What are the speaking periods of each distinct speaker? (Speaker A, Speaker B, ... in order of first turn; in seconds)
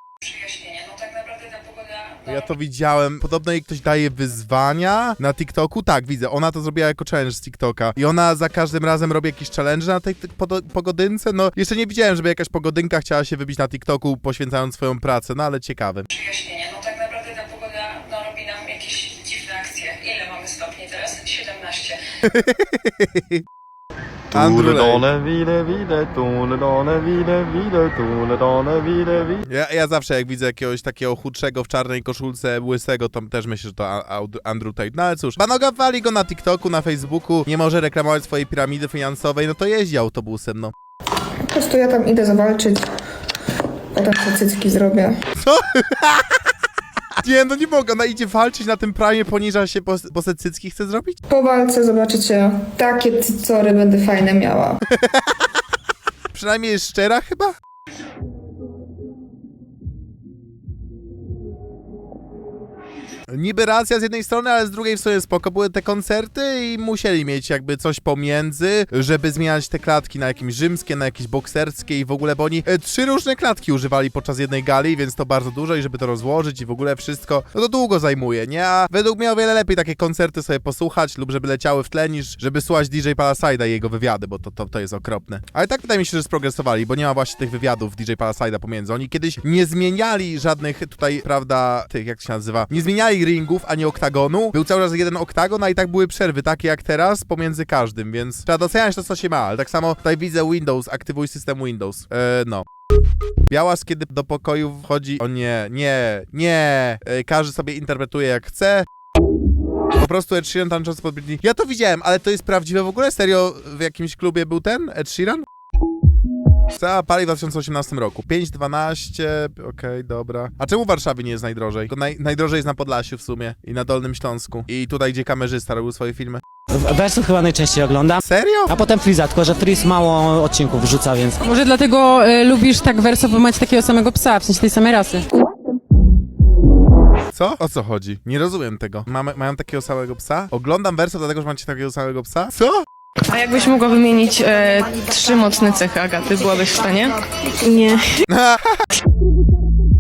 Speaker A: 0.3-2.2, 16.2-22.0
Speaker B: 2.3-16.1, 22.2-23.4, 24.3-25.1, 29.4-40.7, 45.4-46.3, 47.2-51.2, 54.9-55.4, 56.3-57.5, 63.3-102.7, 103.5-108.8, 110.0-115.4, 116.8-126.4, 128.2-128.7, 137.3-142.8, 148.3-148.8
Speaker C: 24.3-29.4
Speaker D: 41.5-42.8, 44.0-45.2, 51.3-54.8
Speaker E: 127.0-128.1, 128.7-131.3
Speaker F: 131.4-135.2
Speaker G: 143.3-148.0